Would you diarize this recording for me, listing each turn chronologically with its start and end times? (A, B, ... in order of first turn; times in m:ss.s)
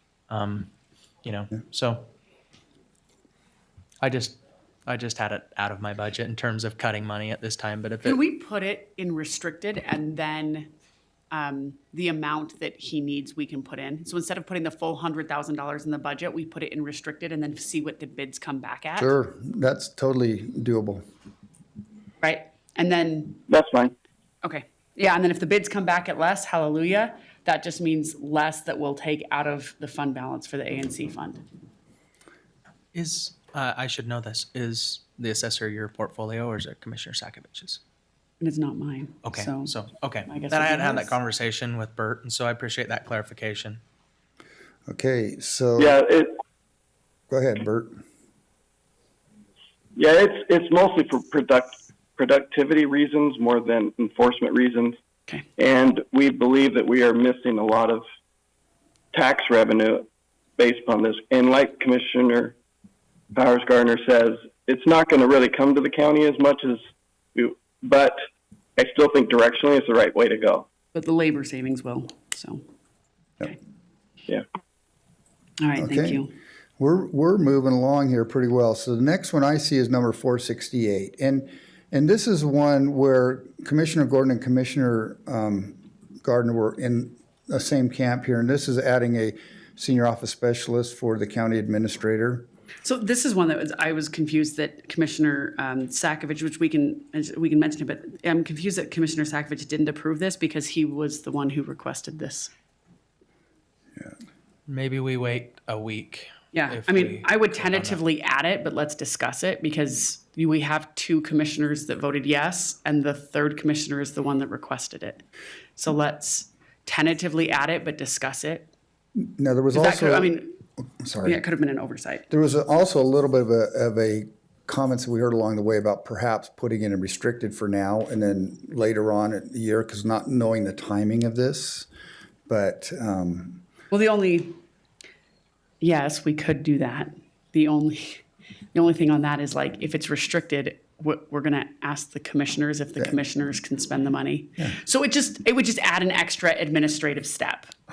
0:00.3-0:00.7 A
0:01.2-0:02.1 A
0:04.0-0:08.2 A
0:08.0-0:10.7 B
0:11.3-0:19.2 B
0:19.0-0:21.0 C
0:22.2-0:23.4 B
0:23.5-0:24.0 D
0:24.4-0:31.4 B
0:32.9-0:37.8 A
0:38.4-0:41.2 B
0:39.2-0:43.8 A
0:44.9-0:46.0 C
0:45.8-0:46.3 D
0:47.3-0:48.0 C
0:50.0-0:55.0 D
0:55.6-0:58.0 D
0:59.1-1:02.6 D
1:03.3-1:06.8 D
1:07.4-1:08.2 D
1:08.8-1:10.7 D
1:10.9-1:12.6 B
1:15.6-1:16.3 B
1:15.8-1:16.3 C
1:16.8-1:32.5 C
1:32.8-1:42.5 B
1:44.7-1:48.0 A
1:46.5-1:55.2 B
1:55.8-1:58.7 B
1:59.2-2:01.4 C
1:59.7-2:00.6 B
2:01.2-2:02.3 B
2:02.3-2:11.9 C
2:12.5-2:13.6 C
2:13.9-2:14.6 B
2:15.8-2:27.7 B